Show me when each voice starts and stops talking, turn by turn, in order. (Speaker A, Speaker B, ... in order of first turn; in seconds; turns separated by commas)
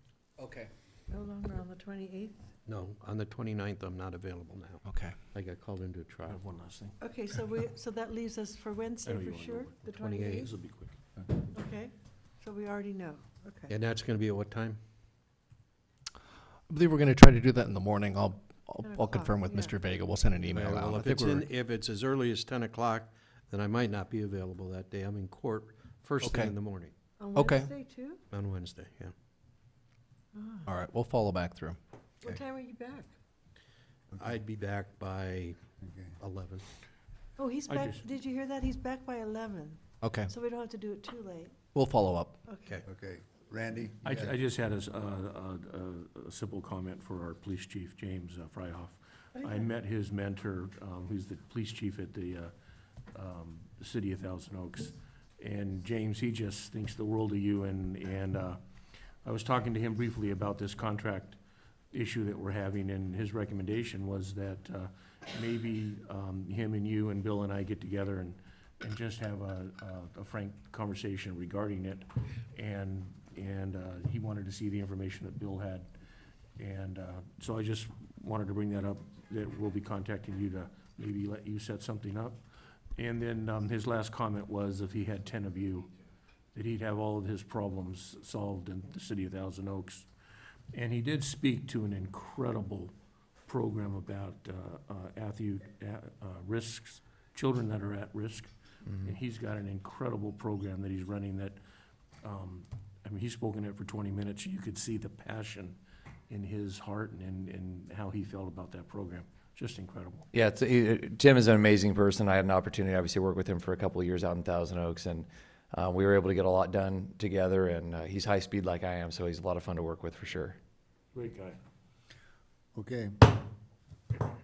Speaker A: 1.1-2.4, Speaker B: 2.6-6.4, Speaker C: 4.8-5.1, Speaker D: 6.3-7.0, Speaker A: 7.0-10.5, Speaker D: 9.0-11.4, Speaker B: 10.0-10.5, Speaker A: 11.5-13.7, Speaker B: 13.7-14.8, Speaker C: 16.7-21.5, Speaker A: 18.8-19.8, Speaker B: 20.5-26.9, Speaker C: 26.2-26.5, Speaker A: 27.2-28.2, Speaker C: 27.4-27.7, Speaker B: 28.3-29.1, Speaker A: 30.3-30.6, Speaker C: 30.6-31.8, Speaker A: 32.2-33.1, Speaker B: 34.2-35.6, Speaker E: 35.8-36.1, Speaker B: 36.2-36.7, Speaker A: 37.4-41.5, Speaker D: 37.7-38.0, Speaker C: 40.0-40.3, Speaker C: 41.7-42.4, Speaker A: 42.5-42.8, Speaker E: 42.8-44.3, Speaker D: 44.0-52.5, Speaker D: 53.1-58.6, Speaker D: 59.2-61.4, Speaker D: 61.9-75.9, Speaker D: 76.6-82.4, Speaker D: 83.0-85.9, Speaker D: 86.5-90.1, Speaker D: 90.7-92.9, Speaker D: 93.5-101.6, Speaker D: 102.2-105.8, Speaker D: 106.3-110.3, Speaker F: 110.3-120.6, Speaker D: 121.1-121.6, Speaker E: 122.7-123.4